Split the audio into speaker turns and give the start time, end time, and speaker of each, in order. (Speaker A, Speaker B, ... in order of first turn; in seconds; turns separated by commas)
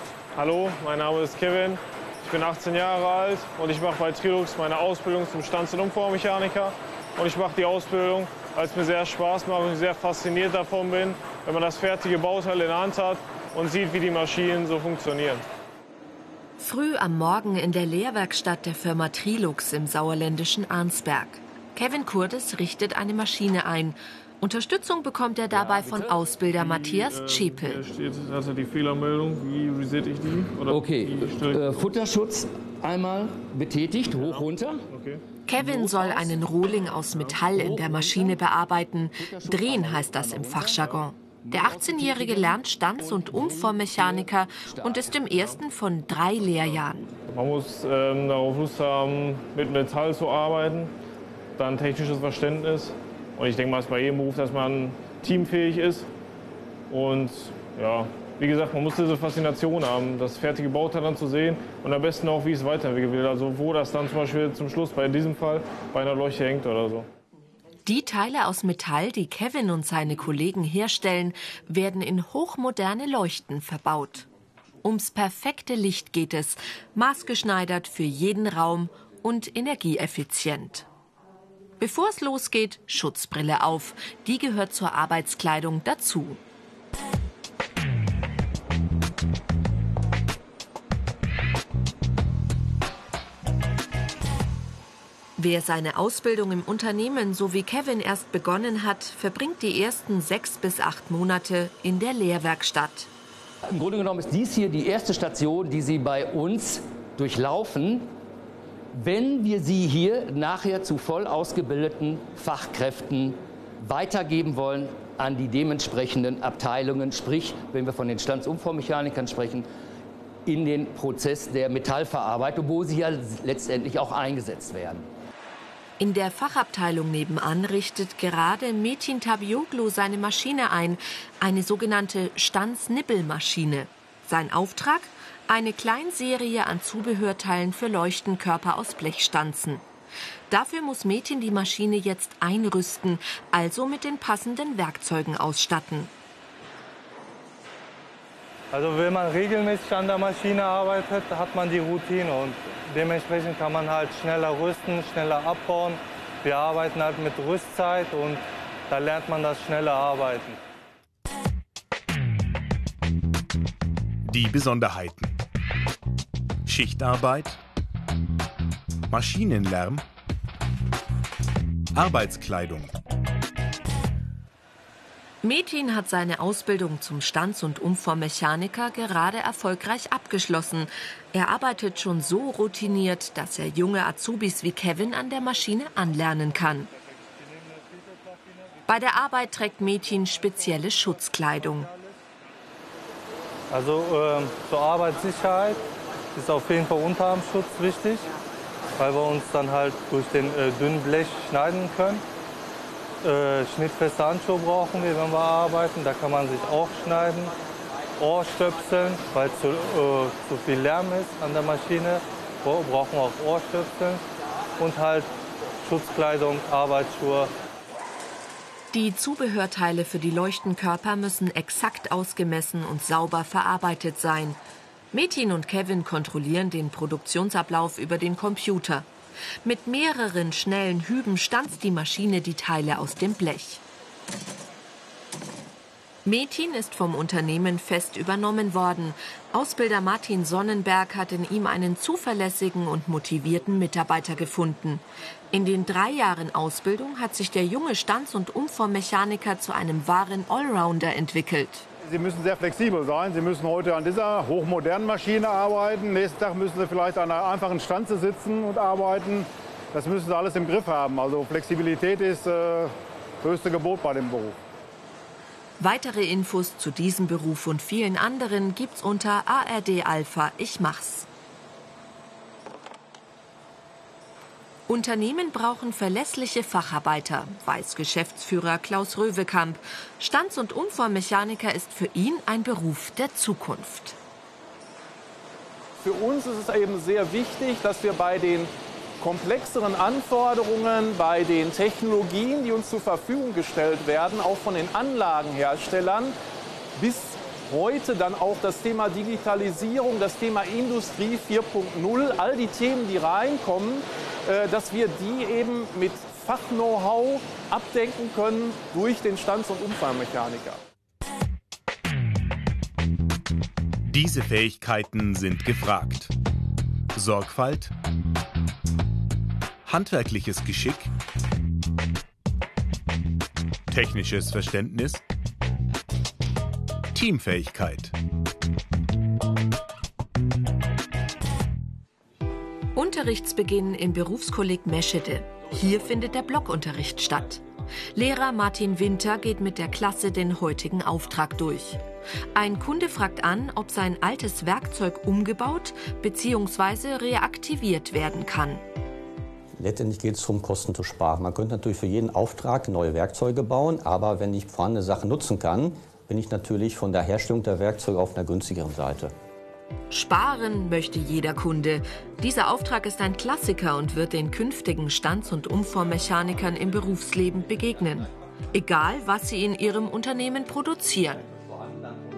Speaker A: 0.3-15.4, Speaker B: 16.6-27.8, Speaker C: 25.5-26.2, Speaker A: 26.5-31.9, Speaker C: 30.7-34.9, Speaker A: 34.1-35.2, Speaker B: 35.5-47.1, Speaker A: 37.1-37.4, Speaker C: 37.5-38.4, Speaker C: 39.2-40.9, Speaker C: 41.5-45.4, Speaker A: 46.7-50.9, Speaker A: 51.6-56.1, Speaker A: 56.9-67.1, Speaker B: 67.8-74.3, Speaker B: 74.8-80.9, Speaker B: 81.8-86.4, Speaker B: 95.4-103.1, Speaker C: 103.7-108.1, Speaker C: 108.9-119.7, Speaker C: 120.5-125.1, Speaker B: 126.0-139.8, Speaker B: 140.5-146.1, Speaker D: 148.7-160.6, Speaker E: 164.2-165.4, Speaker E: 166.7-167.6, Speaker E: 169.1-170.0, Speaker E: 171.9-172.9, Speaker B: 175.4-186.9, Speaker B: 188.9-191.9, Speaker D: 193.7-195.8, Speaker D: 196.3-198.3, Speaker D: 199.0-202.2, Speaker D: 203.2-207.5, Speaker D: 208.2-214.2, Speaker D: 214.8-215.3, Speaker D: 215.8-217.5, Speaker B: 218.9-224.6, Speaker B: 225.1-229.1, Speaker B: 229.6-233.8, Speaker B: 236.2-251.9, Speaker F: 252.0-264.6, Speaker B: 265.8-271.3, Speaker B: 274.9-284.2, Speaker G: 286.0-296.4, Speaker G: 297.0-310.8, Speaker E: 314.1-316.3, Speaker E: 317.1-317.9, Speaker E: 319.9-321.1, Speaker E: 323.9-325.2, Speaker E: 327.1-328.1, Speaker B: 332.9-337.6, Speaker B: 338.1-342.0, Speaker B: 342.5-348.8, Speaker H: 349.8-359.3, Speaker B: 360.1-371.4